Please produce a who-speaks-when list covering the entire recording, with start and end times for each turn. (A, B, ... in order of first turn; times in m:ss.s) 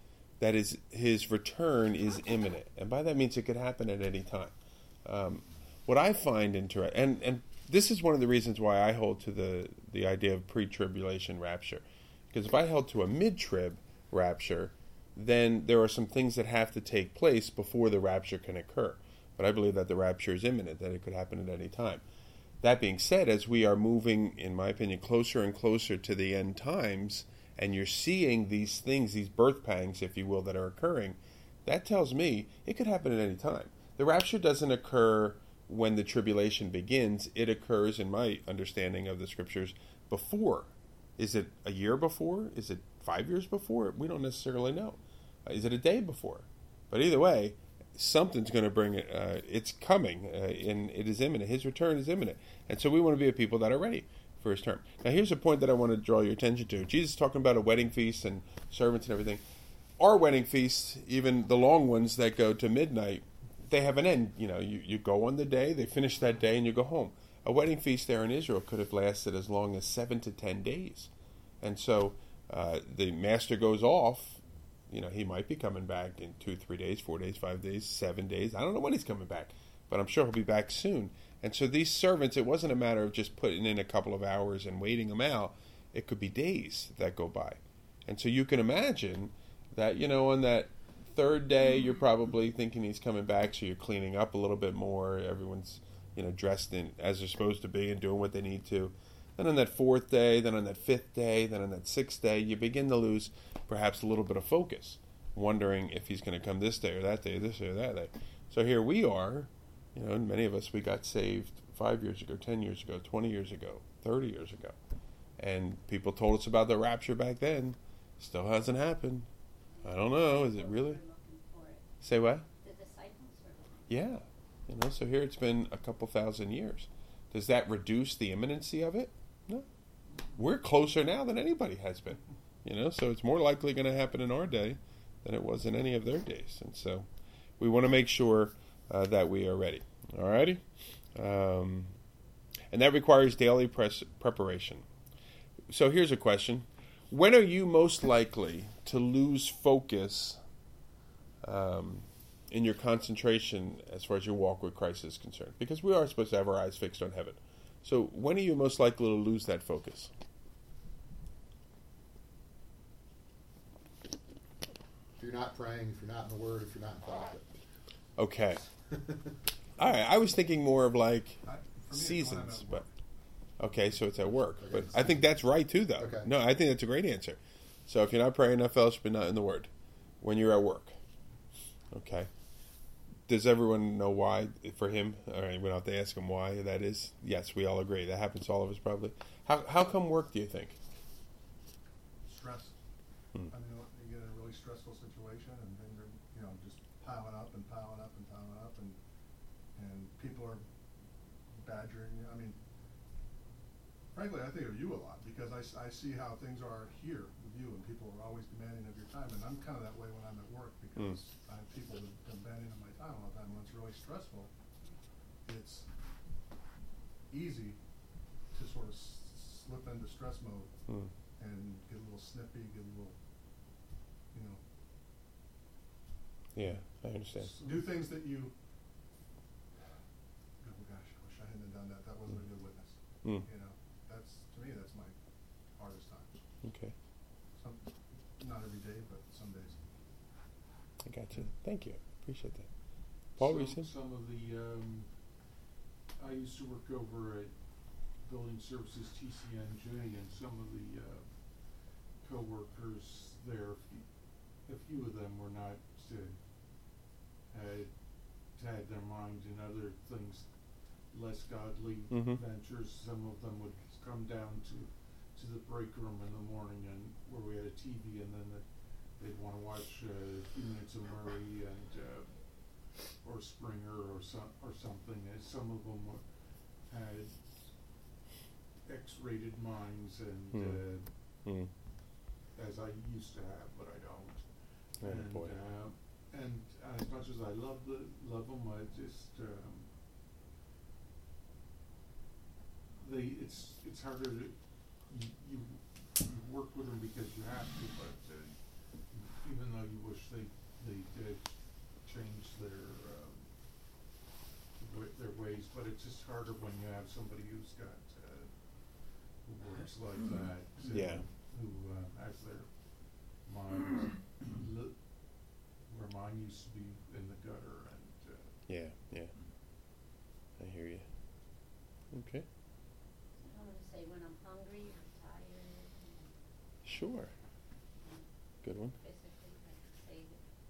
0:00.4-0:04.5 A
0:05.0-0:22.0 A
0:22.6-0:59.4 A
1:00.0-1:11.1 A
1:11.6-1:54.8 A
1:55.4-1:59.3 A
1:59.8-2:01.9 B
1:59.8-2:01.0 A
2:02.0-2:02.5 A
2:02.5-2:03.9 B
2:03.9-2:09.7 A
2:10.4-2:17.1 A
2:17.6-2:21.9 A
2:22.7-2:24.8 A
2:25.7-2:30.4 A
2:31.4-2:40.1 A
2:45.2-2:47.6 C
2:48.2-2:48.6 A
2:48.9-2:49.3 C
2:49.8-2:52.9 A
2:51.4-2:52.9 D
2:53.6-2:59.7 A
2:54.6-2:55.2 C
2:56.0-2:56.3 C
3:00.2-3:01.0 A
3:01.9-3:02.3 A
3:03.3-3:10.8 A
3:12.2-3:12.8 D
3:13.5-3:19.0 D
3:19.8-3:20.6 D
3:21.5-3:22.6 D
3:24.1-3:34.5 D
3:35.4-3:35.9 D
3:37.3-3:37.8 D
3:38.5-3:40.8 D
3:41.4-3:43.2 D
3:44.3-3:44.6 D
3:46.6-3:47.5 A
3:46.6-3:48.6 D
3:50.6-3:56.4 D
3:53.2-3:53.5 A
3:56.6-3:57.0 A
3:57.5-3:59.9 D
4:01.0-4:02.7 A
4:03.4-4:05.5 E
4:03.4-4:03.9 A
4:06.2-4:38.0 E
4:22.1-4:22.4 A
4:38.8-4:41.5 E
4:40.5-4:41.7 A
4:42.5-4:50.0 E
4:45.0-4:45.6 A
4:52.9-5:04.0 E
5:04.8-5:18.6 E
5:10.9-5:11.2 A
5:18.7-5:19.3 A
5:20.6-5:21.1 A
5:22.1-5:22.5 A
5:23.4-5:26.4 B
5:26.8-5:27.3 A
5:28.0-5:28.3 B
5:28.6-5:29.0 A
5:29.0-5:30.4 B